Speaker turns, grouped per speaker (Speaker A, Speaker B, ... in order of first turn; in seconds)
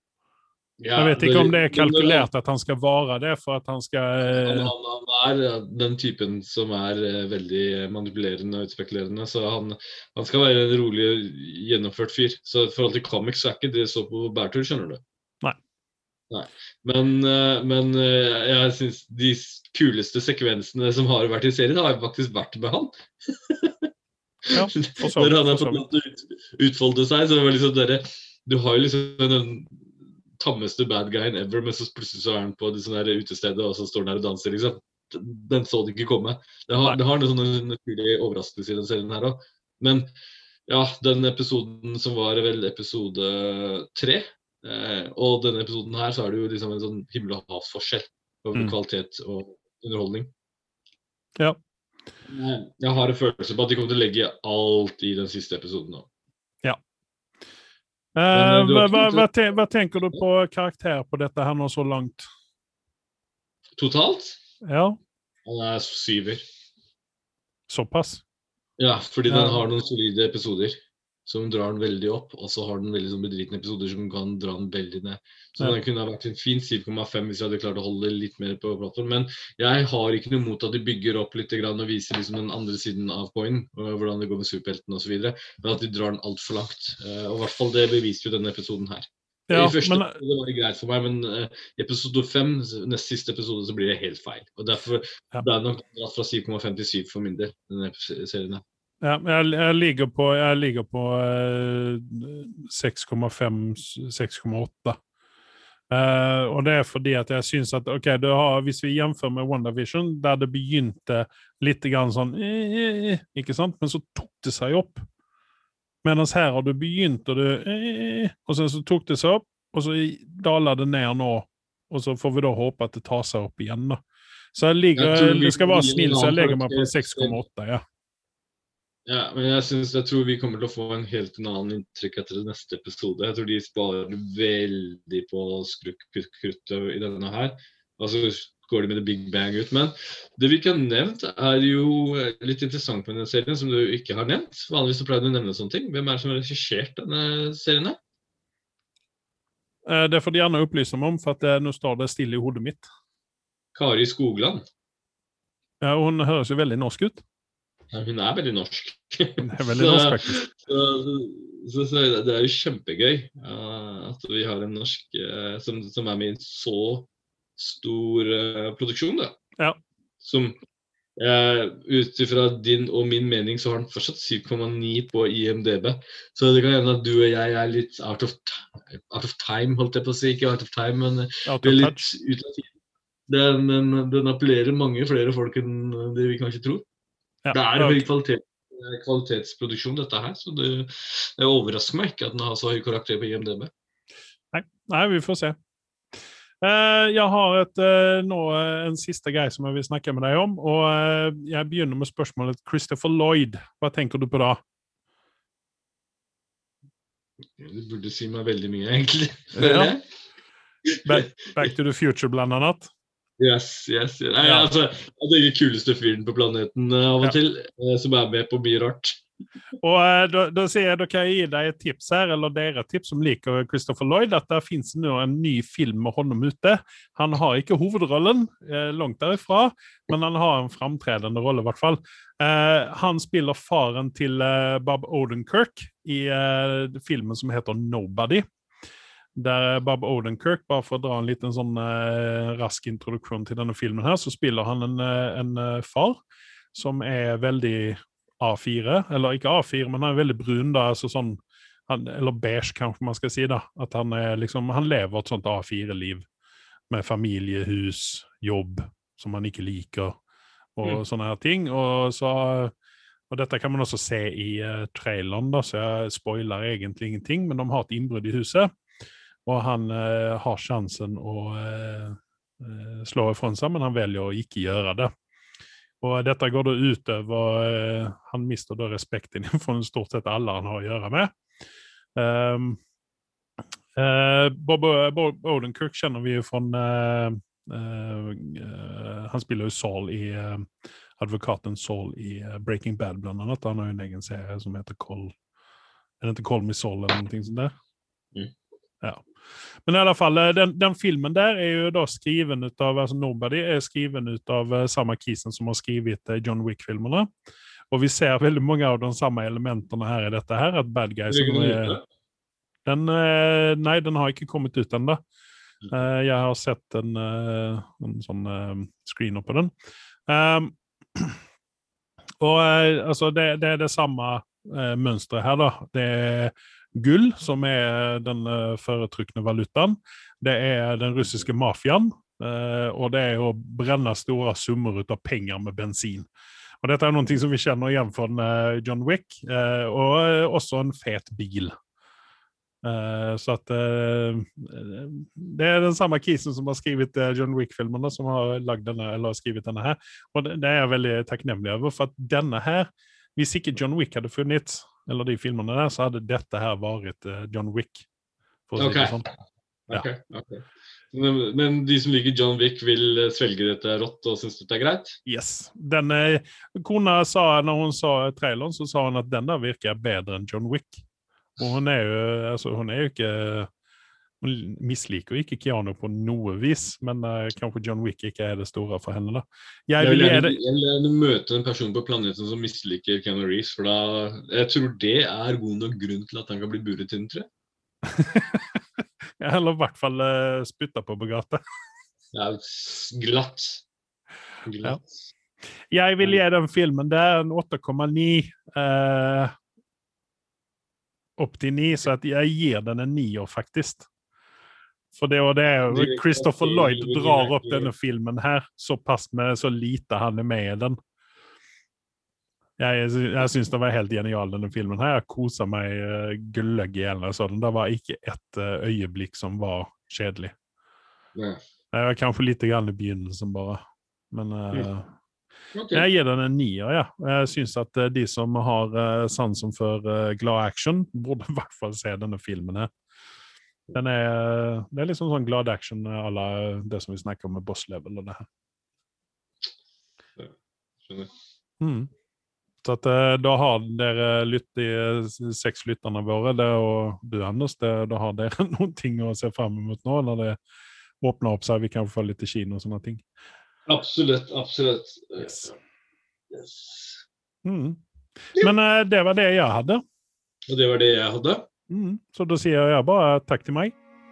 Speaker A: 0.8-2.3, 4.3-15.0, 16.3-23.9, 24.5-29.8, 30.4-40.1, 40.7-50.3, 52.3-56.1, 58.3-59.3, 63.8-64.4, 65.5-66.4, 68.8-98.6, 125.0-127.4, 129.1-148.0, 153.7-154.6, 157.9-169.4, 170.2-170.6, 171.2-182.7, 183.3-186.8, 187.5-193.7, 207.6-210.0, 210.9-211.7, 213.4-219.2, 311.3-312.0, 358.8-359.3, 359.9-365.2, 380.0-387.5, 392.3-393.8, 394.6-395.2, 405.9-407.9, 421.3-421.6, 425.7-426.1, 441.1-441.3, 453.9-455.8, 456.5-457.2, 460.7-461.7
Speaker B: 1.0-4.7, 24.5-25.9, 58.1-62.3, 64.6-65.0, 67.7-68.2, 69.3-69.6, 89.5-90.1, 99.0-105.0, 105.9-115.0, 116.0-124.0, 124.5-127.8, 149.8-152.8, 155.8-157.2, 159.4-160.4, 181.4-182.1, 187.4-188.1, 194.5-195.6, 196.6-204.6, 209.6-209.9, 211.0-212.9, 214.4-214.7, 219.8-238.4, 239.3-246.2, 246.7-256.3, 256.9-260.2, 260.8-262.7, 263.3-268.7, 269.4-275.1, 276.0-281.3, 282.1-282.8, 283.9-295.3, 296.2-297.7, 299.0-299.2, 299.8-307.3, 307.9-312.0, 312.9-315.2, 315.9-319.7, 320.3-321.4, 322.4-336.3, 336.8-341.7, 342.8-358.1, 358.7-359.3, 365.2-371.0, 371.6-373.7, 374.4-380.6, 388.1-388.8, 389.4-391.6, 395.9-399.5, 401.4-404.1, 405.1-411.0, 412.8-420.5, 421.9-425.1, 425.9-432.9, 433.9-438.4, 441.8-442.1, 442.8-450.6, 451.2-453.2, 455.4-455.7, 457.6-458.0, 458.5-460.0, 461.9-463.9